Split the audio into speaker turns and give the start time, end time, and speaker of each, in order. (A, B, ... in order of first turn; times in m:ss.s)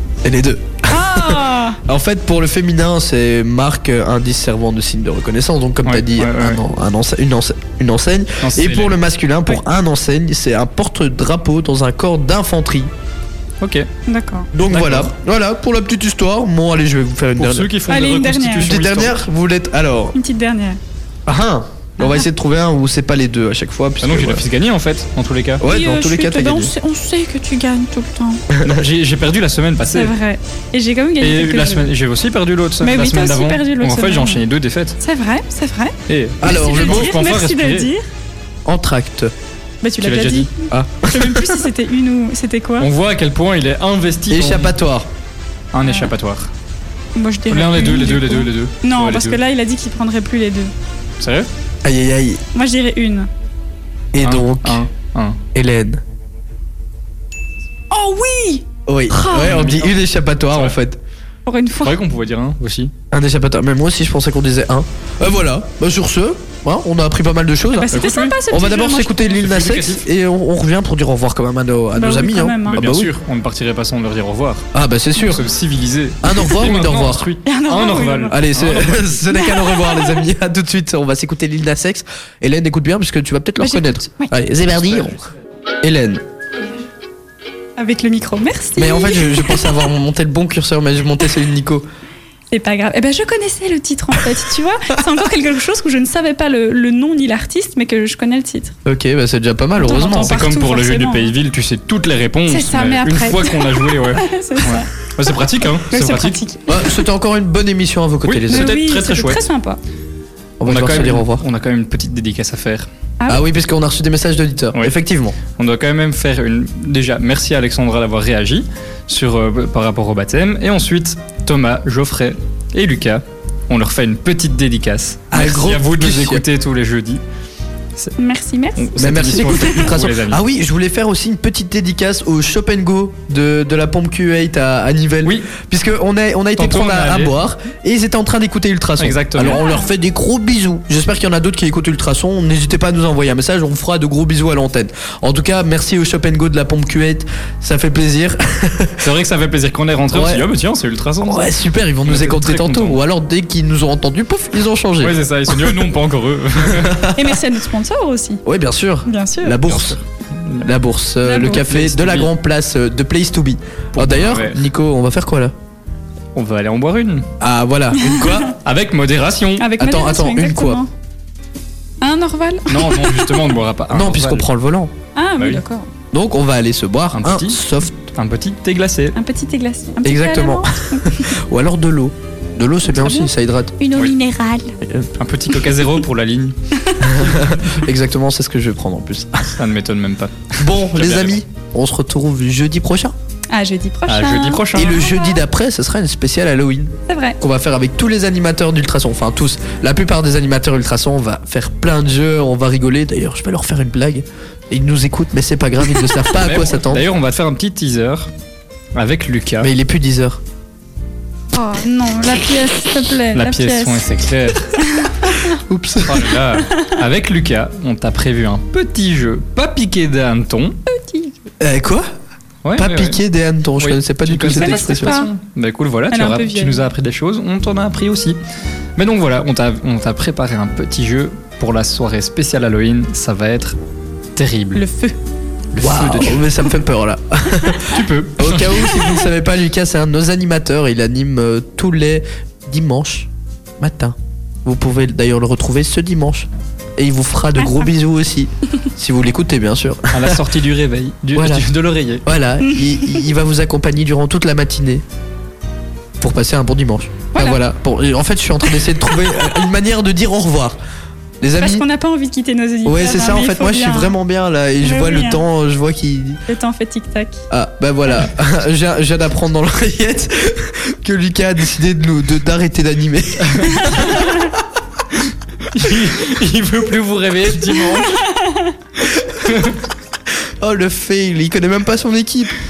0:00.2-0:12.9 A
0:00.9-0:01.8 B
0:05.8-0:06.6 C
0:08.4-0:09.0 C
0:13.6-0:13.9 C
0:14.1-0:14.5 B
0:14.5-0:17.7 A
0:14.7-0:15.1 C
0:17.4-0:19.2 C
0:17.9-0:18.7 B
0:18.6-0:20.2 A
0:20.2-0:20.8 B
0:21.3-0:24.4 A
0:24.0-0:25.6 C
0:25.6-0:26.7 A
0:25.7-0:28.5 B
0:28.5-0:28.8 A
0:28.6-0:30.2 C
0:29.9-0:31.9 B
0:31.2-0:35.0 C
0:32.8-0:34.4 B
0:35.0-0:38.0 B
0:36.1-0:37.9 C
0:36.4-0:37.1 A
0:38.7-0:39.3 A
0:39.8-0:42.9 B
0:40.0-0:40.5 C
0:40.7-0:41.6 A
0:42.8-0:44.8 C
0:44.3-0:45.1 A
0:45.7-0:46.5 C
0:45.8-0:46.1 B
0:47.2-0:50.7 B
0:47.5-0:49.4 C
0:51.2-0:51.5 C
0:51.8-0:52.4 A
0:52.5-0:53.3 B
0:54.1-0:54.8 A
0:54.2-0:55.4 C
0:55.6-0:56.0 A
0:57.9-0:59.6 B
0:58.9-1:01.0 A
0:59.4-1:00.8 C
1:01.5-1:02.0 B
1:01.8-1:02.9 C
1:03.1-1:13.1 A
1:07.8-1:09.3 B
1:07.9-1:08.4 C
1:09.3-1:10.1 C
1:12.0-1:12.8 B
1:12.7-1:14.7 C
1:14.7-1:15.4 A
1:15.2-1:19.2 C
1:16.2-1:17.3 A
1:17.5-1:18.4 B
1:18.3-1:25.3 A
1:19.5-1:20.2 B
1:23.6-1:24.3 B
1:25.8-1:26.2 A
1:27.8-1:29.7 B
1:28.8-1:31.9 A
1:32.5-1:38.8 B
1:38.9-1:40.4 A
1:39.8-1:41.3 B
1:40.2-1:46.4 C
1:42.5-1:45.1 B
1:45.9-1:47.0 B
1:46.7-1:48.8 A
1:48.2-1:49.4 C
1:48.5-1:49.8 B
1:50.6-1:51.4 A
1:50.6-1:52.9 C
1:53.3-1:55.4 A
1:55.5-2:07.2 C
2:05.3-2:06.4 A
2:08.2-2:09.9 B
2:08.8-2:10.4 C
2:09.0-2:29.0 A
2:15.2-2:15.5 C
2:16.6-2:17.4 C
2:19.0-2:19.6 C
2:19.5-2:19.9 B
2:29.0-2:33.0 C
2:30.1-2:30.4 A
2:31.2-2:35.8 A
2:35.0-2:37.1 C
2:36.7-2:37.2 A
2:37.2-2:38.4 B
2:38.4-2:40.0 A
2:39.1-2:39.6 B
2:39.6-2:40.7 C
2:40.6-2:45.5 A
2:41.2-2:41.6 B
2:41.4-2:42.3 C
2:44.0-2:44.7 C
2:46.4-2:47.3 C
2:47.4-2:48.6 A
2:48.0-2:48.4 B
2:48.6-2:49.7 C
2:49.6-2:50.9 B
2:49.8-2:50.8 A
2:52.0-2:53.2 B
2:52.7-2:54.5 C
2:53.9-2:54.9 A
2:55.2-2:55.9 B
2:56.1-2:58.1 A
2:57.1-2:57.6 C
2:58.1-2:59.2 C
2:59.2-3:01.4 B
3:00.0-3:03.7 A
3:02.9-3:04.7 B
3:04.8-3:05.1 A
3:05.2-3:06.6 C
3:07.0-3:09.6 A
3:07.2-3:07.6 C
3:09.6-3:11.4 C
3:10.6-3:13.1 A
3:13.5-3:15.4 B
3:14.1-3:14.9 C
3:14.7-3:27.1 A
3:17.1-3:17.4 B
3:26.4-3:28.3 C
3:29.0-3:29.7 C
3:29.6-3:30.4 A
3:31.5-3:34.0 B
3:33.3-3:34.7 C
3:34.8-3:35.6 B
3:35.7-3:36.3 A
3:36.0-3:40.8 C
3:36.6-3:36.9 B
3:40.9-3:41.4 B
3:41.6-3:42.1 A
3:42.6-3:43.2 C
3:42.8-3:45.2 A
3:43.8-3:48.4 C
3:44.5-3:45.3 B
3:46.1-3:46.9 B
3:49.0-3:53.8 C
3:54.4-3:54.8 C
3:54.8-3:55.2 B
3:55.8-3:56.4 C
3:55.8-4:03.3 A
3:57.9-3:58.9 C
4:03.8-4:10.4 A
4:10.1-4:12.2 C
4:11.4-4:11.7 A
4:12.2-4:15.0 A
4:12.6-4:13.2 B
4:16.2-4:20.8 A
4:17.3-4:17.6 B
4:21.4-4:21.8 A
4:21.6-4:24.2 B
4:22.8-4:26.4 A
4:24.8-4:25.4 B
4:26.5-4:27.4 B
4:27.5-4:34.4 A
4:33.8-4:34.2 B
4:35.7-4:38.2 C
4:38.3-4:38.7 B
4:39.0-4:39.6 A
4:40.6-4:42.5 A